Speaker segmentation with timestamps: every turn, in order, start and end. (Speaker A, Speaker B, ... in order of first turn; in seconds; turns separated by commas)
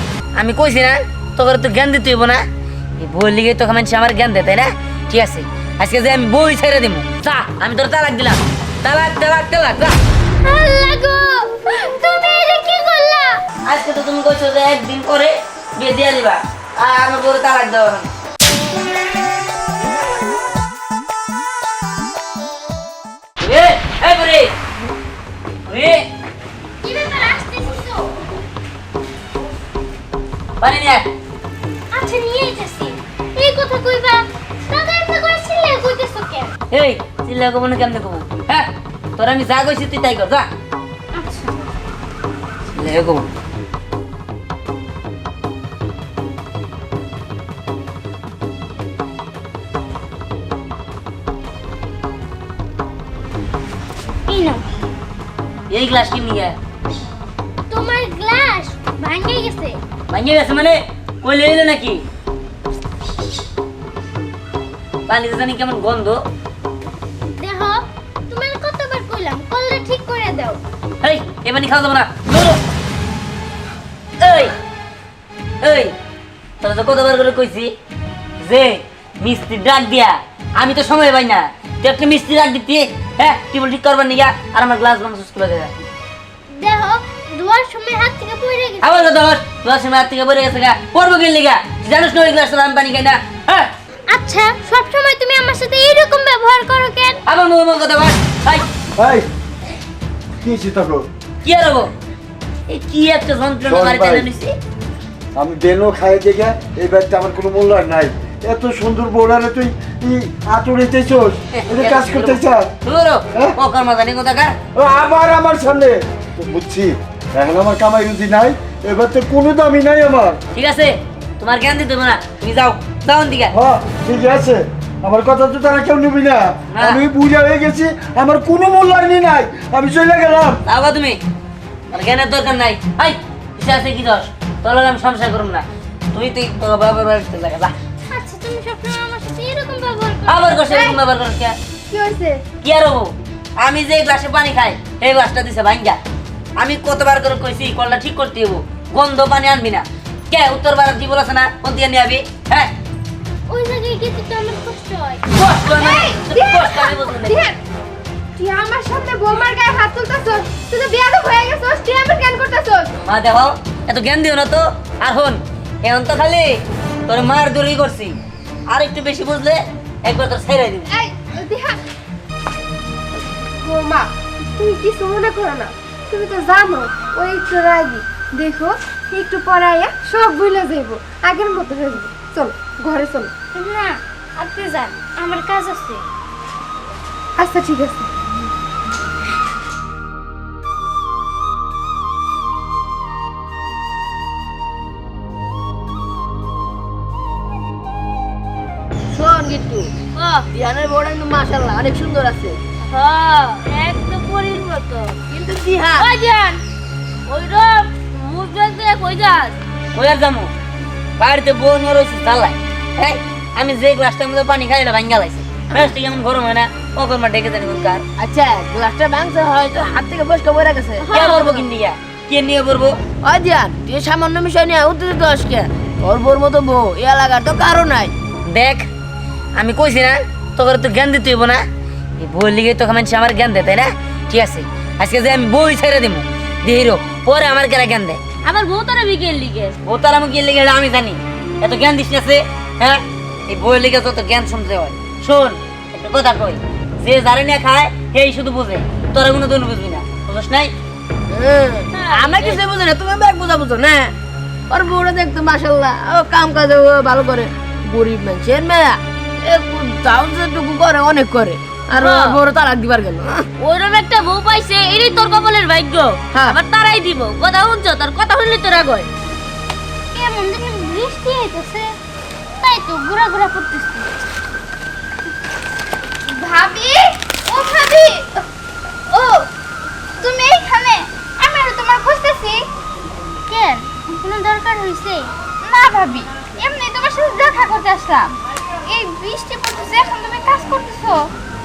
Speaker A: 0.3-2.4, Speaker A: 3.0-9.9, Speaker B: 10.4-13.4, Speaker A: 13.7-18.1, Speaker A: 23.4-24.5, Speaker A: 25.7-26.0, Speaker B: 26.8-28.1, Speaker A: 30.6-31.1, Speaker B: 31.9-36.5, Speaker A: 36.7-40.5, Speaker B: 41.1-41.6, Speaker A: 42.7-43.3, Speaker B: 54.3-54.6, Speaker A: 55.7-56.5, Speaker B: 57.7-59.8, Speaker A: 60.1-62.0, Speaker A: 65.1-66.2, Speaker B: 67.4-70.6, Speaker A: 71.0-72.6, Speaker A: 74.2-74.5, Speaker A: 75.6-75.9, Speaker A: 76.6-77.7, Speaker A: 78.4-85.7, Speaker B: 86.5-89.1, Speaker A: 88.8-93.7, Speaker B: 94.1-97.2, Speaker A: 97.2-98.7, Speaker C: 99.0-99.3, Speaker C: 100.4-101.1, Speaker A: 101.4-101.9, Speaker A: 102.7-104.6, Speaker C: 103.6-104.2, Speaker C: 105.3-112.7, Speaker A: 111.6-114.5, Speaker C: 114.7-120.4, Speaker A: 120.5-123.5, Speaker C: 123.5-130.6, Speaker A: 126.7-127.0, Speaker A: 130.7-131.2, Speaker A: 131.9-137.7, Speaker B: 138.1-140.9, Speaker A: 140.3-141.5, Speaker D: 140.7-140.9, Speaker D: 141.9-142.4, Speaker A: 142.6-146.0, Speaker A: 146.6-152.7, Speaker B: 153.5-155.2, Speaker A: 155.3-157.4, Speaker D: 155.6-157.6, Speaker D: 158.4-162.9, Speaker A: 163.0-166.6, Speaker A: 167.1-168.2, Speaker A: 168.7-170.9, Speaker D: 170.9-171.8, Speaker D: 173.6-183.3, Speaker B: 183.5-186.1, Speaker D: 187.4-188.1, Speaker E: 199.1-206.1, Speaker B: 205.9-206.6, Speaker E: 207.3-209.6, Speaker A: 209.9-210.5, Speaker A: 211.2-218.0, Speaker E: 218.2-221.4, Speaker B: 221.0-221.6, Speaker A: 221.1-223.0, Speaker E: 223.2-228.1, Speaker A: 228.5-228.9, Speaker A: 229.6-231.6, Speaker A: 232.2-238.2, Speaker B: 238.4-239.8, Speaker A: 239.8-250.7, Speaker E: 251.3-254.1, Speaker B: 252.0-252.5, Speaker E: 254.7-263.5, Speaker B: 262.0-262.3, Speaker E: 266.3-266.6, Speaker E: 268.1-269.1, Speaker B: 270.1-271.9, Speaker B: 272.6-274.1, Speaker D: 276.3-278.4, Speaker D: 279.1-279.5, Speaker D: 280.2-282.6, Speaker B: 283.5-285.3, Speaker D: 285.6-288.3, Speaker D: 288.9-291.2